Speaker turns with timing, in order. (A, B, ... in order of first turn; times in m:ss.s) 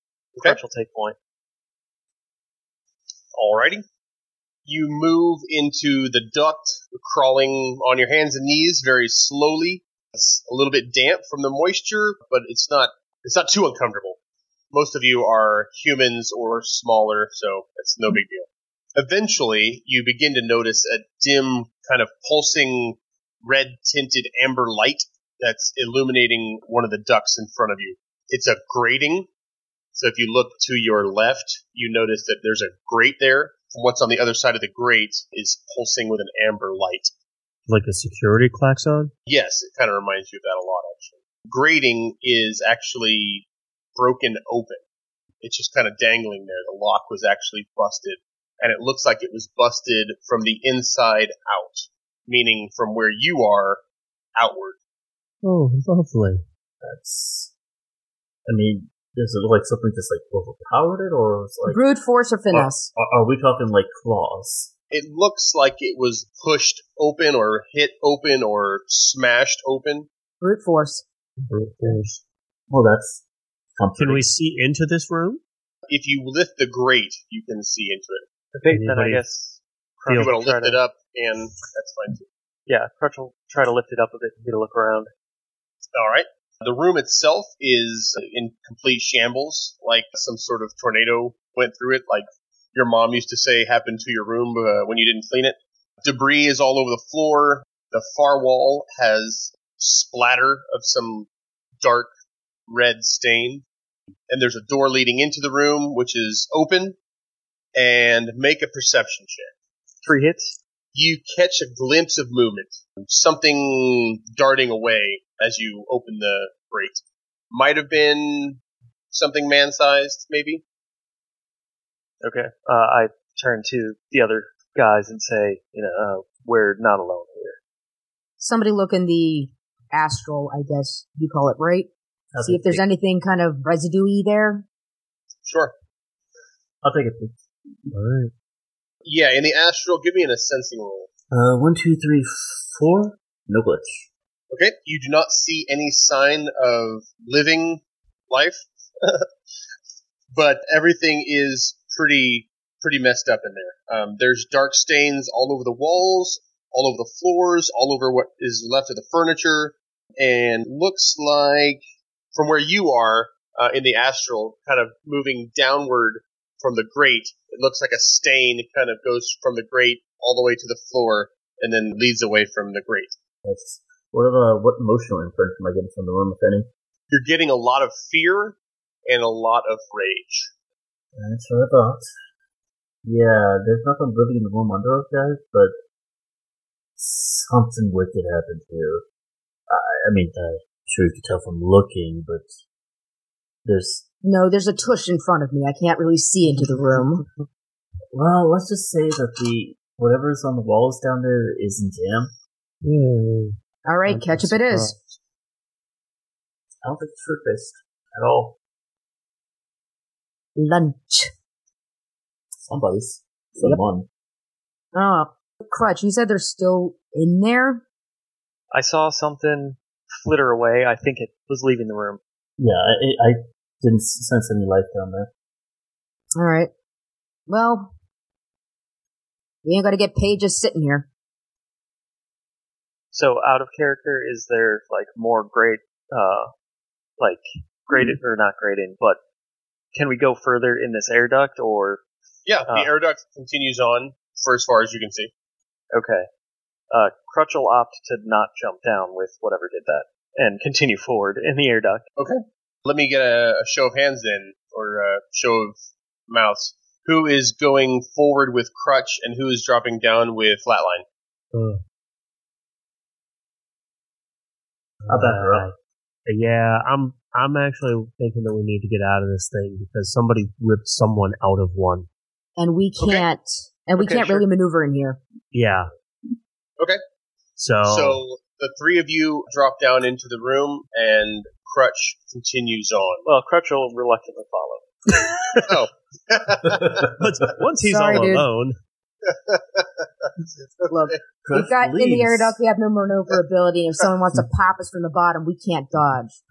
0:00.4-0:01.2 A
0:03.3-0:03.8 B
0:04.6-0:14.2 B
0:14.7-0:29.3 B
0:29.9-0:37.1 B
0:37.7-0:39.1 C
0:39.3-0:44.8 B
0:45.4-0:53.8 B
0:54.4-0:54.8 B
0:55.4-0:56.4 C
0:56.8-0:57.5 D
0:58.4-1:01.8 D
1:01.7-1:02.9 E
1:02.5-1:04.7 D
1:04.9-1:10.1 B
1:10.4-1:11.0 E
1:11.4-1:12.2 C
1:12.7-1:13.2 D
1:13.8-1:14.3 D
1:14.0-1:15.4 C
1:15.9-1:18.3 B
1:18.5-1:20.8 A
1:18.7-1:19.2 C
1:20.1-1:20.3 C
1:20.2-1:22.3 B
1:22.7-1:25.1 A
1:25.9-1:41.3 B
1:41.8-1:42.1 B
1:42.7-1:43.6 B
1:44.3-1:47.0 B
1:47.7-1:49.5 B
1:50.0-1:50.6 A
1:50.9-1:58.6 B
1:59.1-2:00.6 B
2:02.2-2:07.6 A
2:08.4-2:11.9 E
2:12.3-2:12.8 D
2:12.4-2:14.6 E
2:15.4-2:15.7 B
2:16.8-2:17.3 D
2:17.9-2:18.3 C
2:19.0-2:21.1 B
2:21.3-2:24.1 D
2:24.5-2:29.3 B
2:30.3-2:41.8 B
2:42.3-2:53.2 B
2:53.4-2:56.7 D
2:57.1-3:00.5 B
3:01.1-3:02.1 D
3:03.0-3:05.7 D
3:07.0-3:09.0 D
3:09.7-3:12.6 D
3:13.6-3:14.0 D
3:14.2-3:17.2 E
3:18.1-3:22.3 D
3:22.8-3:25.0 C
3:23.8-3:24.9 E
3:26.8-3:28.6 D
3:30.6-3:31.3 E
3:32.6-3:34.1 D
3:34.9-3:37.8 E
3:38.7-3:42.2 A
3:42.6-3:45.3 D
3:46.4-3:46.7 E
3:47.5-3:47.9 E
3:49.6-3:51.1 E
3:53.1-3:56.5 A
3:57.2-3:59.2 A
3:59.9-4:02.0 A
4:02.4-4:05.3 B
4:05.9-4:06.3 A
4:06.9-4:12.0 A
4:12.2-4:21.0 B
4:21.5-4:21.8 C
4:25.0-4:25.7 C
4:25.1-4:25.7 D
4:26.2-4:32.1 C
4:32.6-4:35.2 E
4:35.5-4:35.9 C
4:37.6-4:38.2 C
4:37.8-4:43.2 B
4:43.2-4:45.2 A
4:45.2-4:45.7 C
4:45.6-4:47.1 B
4:46.7-4:47.1 D
4:47.2-4:48.7 C
4:47.8-4:48.5 E
4:49.2-4:51.1 B
4:50.9-4:56.4 E
4:51.4-4:52.6 D